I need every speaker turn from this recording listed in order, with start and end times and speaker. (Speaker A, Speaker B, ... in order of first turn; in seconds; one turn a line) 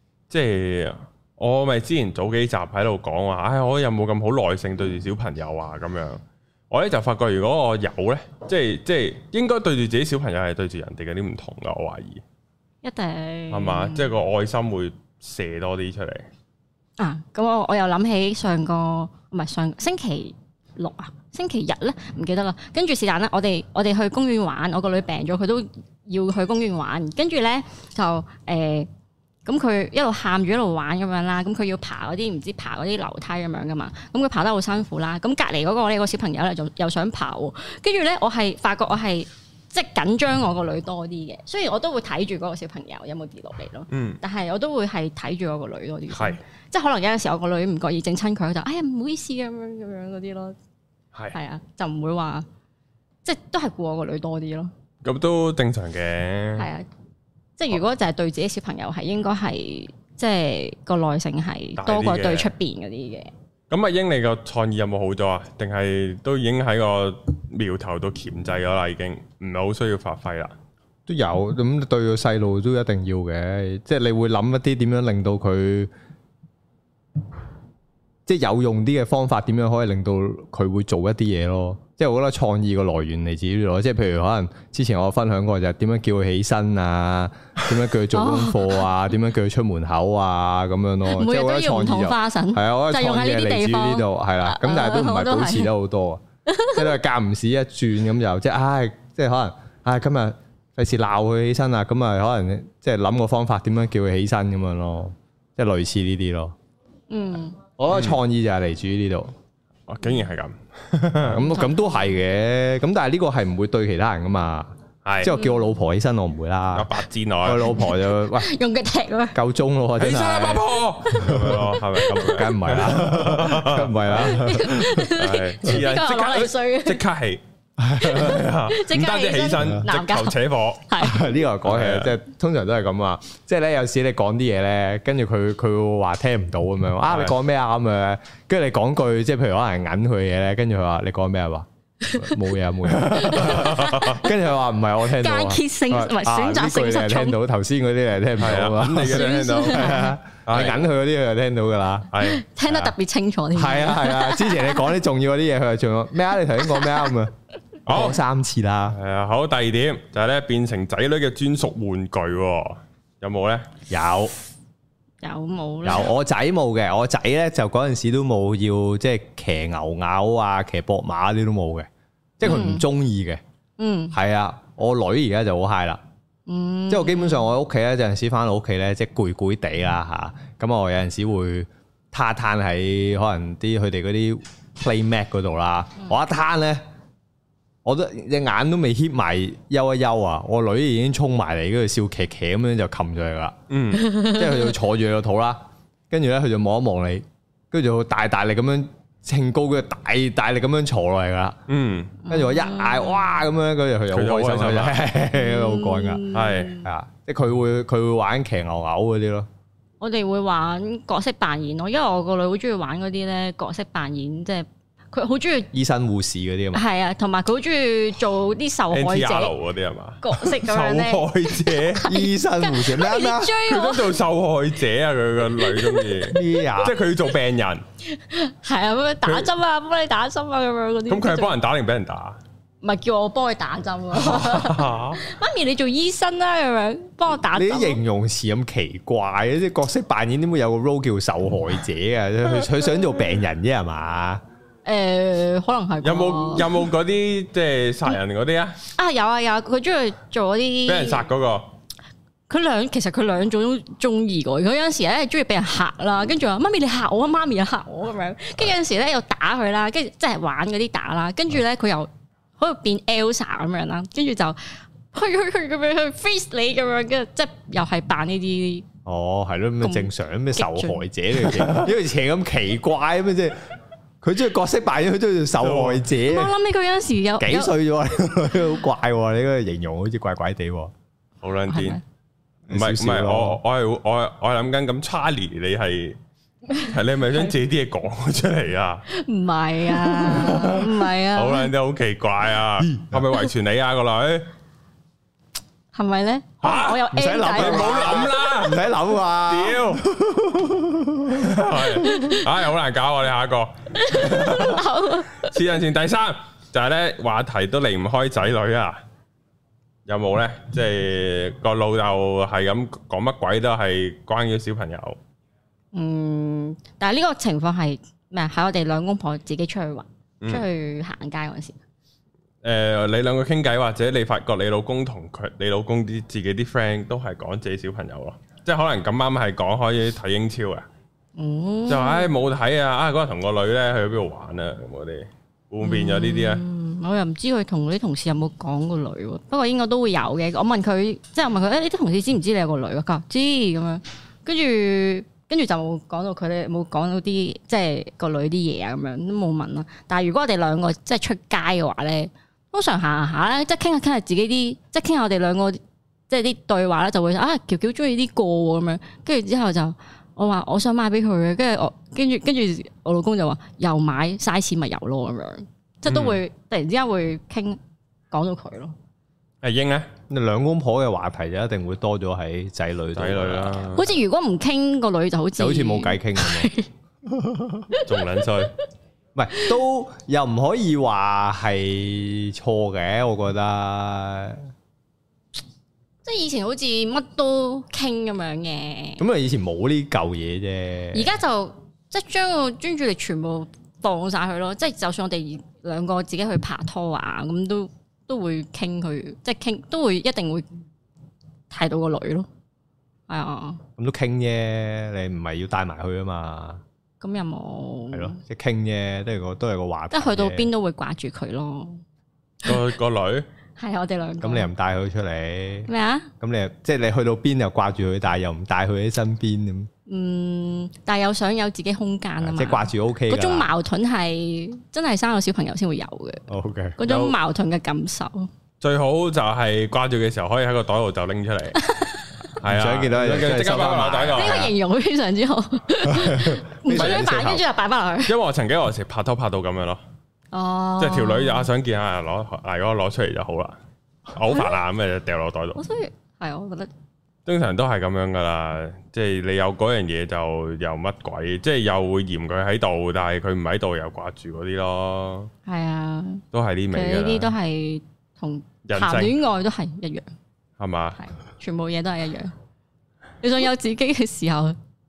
Speaker A: 0.3-12.2
Speaker B: 12.8-14.1
Speaker A: 13.5-16.2
Speaker B: 17.0-28.9
Speaker B: 29.4-50.5
Speaker A: 43.9-44.2
Speaker A: 46.1-46.4
Speaker B: 51.3-52.5
Speaker B: 53.2-54.7
Speaker A: 55.0-56.7
Speaker B: 56.6-56.9
Speaker B: 57.6-63.3
Speaker A: 61.8-62.5
Speaker A: 63.7-70.5
Speaker C: 71.1-75.9
Speaker C: 78.2-96.2
Speaker B: 88.1-88.8
Speaker B: 91.1-95.7
Speaker B: 96.5-96.9
Speaker C: 96.7-106.5
Speaker B: 107.1-107.6
Speaker C: 107.8-109.3
Speaker A: 107.9-108.2
Speaker A: 109.9-111.5
Speaker C: 111.2-116.9
Speaker B: 111.5-111.9
Speaker A: 115.0-115.3
Speaker B: 115.3-115.7
Speaker A: 116.7-117.8
Speaker C: 117.4-118.5
Speaker B: 117.9-119.4
Speaker C: 119.3-120.7
Speaker A: 120.0-127.4
Speaker B: 121.1-122.3
Speaker C: 121.2-121.6
Speaker C: 122.2-125.1
Speaker B: 124.2-127.0
Speaker C: 127.8-128.4
Speaker A: 128.0-130.9
Speaker B: 128.1-131.3
Speaker C: 131.0-152.1
Speaker A: 131.6-132.1
Speaker A: 137.1-137.3
Speaker B: 142.0-142.4
Speaker B: 143.0-144.4
Speaker A: 143.3-144.2
Speaker B: 145.1-147.4
Speaker A: 148.4-150.8
Speaker B: 148.9-150.2
Speaker A: 152.1-152.4
Speaker B: 152.2-155.0
Speaker C: 152.7-152.9
Speaker C: 153.5-157.3
Speaker B: 156.6-157.1
Speaker A: 157.8-158.2
Speaker C: 157.8-159.0
Speaker A: 158.9-163.7
Speaker C: 163.9-164.3
Speaker B: 165.2-166.1
Speaker C: 165.8-171.9
Speaker C: 172.4-173.4
Speaker B: 172.4-172.8
Speaker B: 173.8-174.1
Speaker C: 174.1-176.0
Speaker B: 176.5-177.5
Speaker C: 176.9-186.8
Speaker C: 187.8-193.5
Speaker A: 193.7-194.1
Speaker B: 193.9-194.7
Speaker C: 194.2-201.6
Speaker A: 201.7-202.2
Speaker B: 202.2-203.4
Speaker C: 202.3-206.3
Speaker A: 204.1-205.0
Speaker B: 205.3-206.9
Speaker A: 206.3-206.8
Speaker C: 206.8-209.5
Speaker B: 210.0-215.7
Speaker C: 215.7-216.8
Speaker B: 216.7-219.5
Speaker A: 218.9-222.1
Speaker B: 220.2-224.2
Speaker C: 222.0-223.5
Speaker A: 223.7-227.8
Speaker B: 225.6-226.4
Speaker C: 226.3-227.0
Speaker B: 228.1-231.6
Speaker A: 231.1-232.4
Speaker B: 232.8-238.0
Speaker A: 234.2-235.2
Speaker C: 237.5-244.4
Speaker B: 244.8-246.8
Speaker A: 246.0-248.8
Speaker B: 248.8-251.3
Speaker A: 250.8-251.7
Speaker B: 252.5-268.9
Speaker C: 269.1-273.6
Speaker B: 269.8-271.8
Speaker C: 274.2-276.5
Speaker A: 275.6-276.0
Speaker B: 276.1-277.7
Speaker C: 277.4-280.9
Speaker A: 281.4-282.0
Speaker B: 281.7-282.0
Speaker C: 282.7-283.6
Speaker A: 282.7-286.2
Speaker A: 286.8-289.1
Speaker B: 289.1-291.7
Speaker C: 290.2-290.8
Speaker A: 290.4-290.8
Speaker A: 291.3-294.5
Speaker C: 292.8-293.2
Speaker B: 295.9-298.3
Speaker A: 296.6-298.9
Speaker C: 297.1-301.8
Speaker A: 299.5-300.0
Speaker A: 301.3-304.8
Speaker B: 302.0-302.4
Speaker B: 304.0-305.5
Speaker A: 305.4-309.0
Speaker A: 310.1-315.2
Speaker B: 315.9-321.8
Speaker A: 322.6-330.9
Speaker B: 331.4-332.3
Speaker A: 331.9-336.6
Speaker B: 335.8-367.8
Speaker A: 366.1-366.4
Speaker B: 368.3-368.9
Speaker A: 369.6-370.1
Speaker C: 370.3-373.9
Speaker A: 373.1-374.1
Speaker B: 373.9-376.9
Speaker C: 375.6-376.7
Speaker C: 377.2-377.9
Speaker B: 377.9-378.2
Speaker A: 378.0-378.7
Speaker C: 379.3-384.7
Speaker B: 386.2-389.2
Speaker C: 389.2-391.3
Speaker B: 391.1-400.7
Speaker B: 401.7-402.5
Speaker B: 403.3-403.8
Speaker C: 404.0-406.8
Speaker B: 407.2-408.4
Speaker C: 408.1-410.7
Speaker B: 410.1-412.0
Speaker A: 412.6-413.4
Speaker B: 413.8-414.7
Speaker C: 414.4-415.9
Speaker B: 415.9-416.3
Speaker C: 416.4-419.9
Speaker B: 420.1-426.4
Speaker C: 422.4-423.7
Speaker C: 426.5-427.3
Speaker B: 427.0-428.5
Speaker A: 428.8-431.8
Speaker B: 431.8-432.2
Speaker A: 432.6-434.7
Speaker C: 432.6-434.7
Speaker B: 434.3-438.3
Speaker C: 436.1-437.6
Speaker A: 436.9-437.5
Speaker A: 438.2-440.0
Speaker B: 440.5-441.7
Speaker A: 441.0-443.8
Speaker A: 444.3-445.8
Speaker B: 445.8-446.9
Speaker A: 447.4-455.5
Speaker B: 455.6-460.3
Speaker A: 456.5-457.5
Speaker A: 458.9-459.4
Speaker A: 460.8-461.2
Speaker B: 461.2-462.5
Speaker B: 463.4-464.8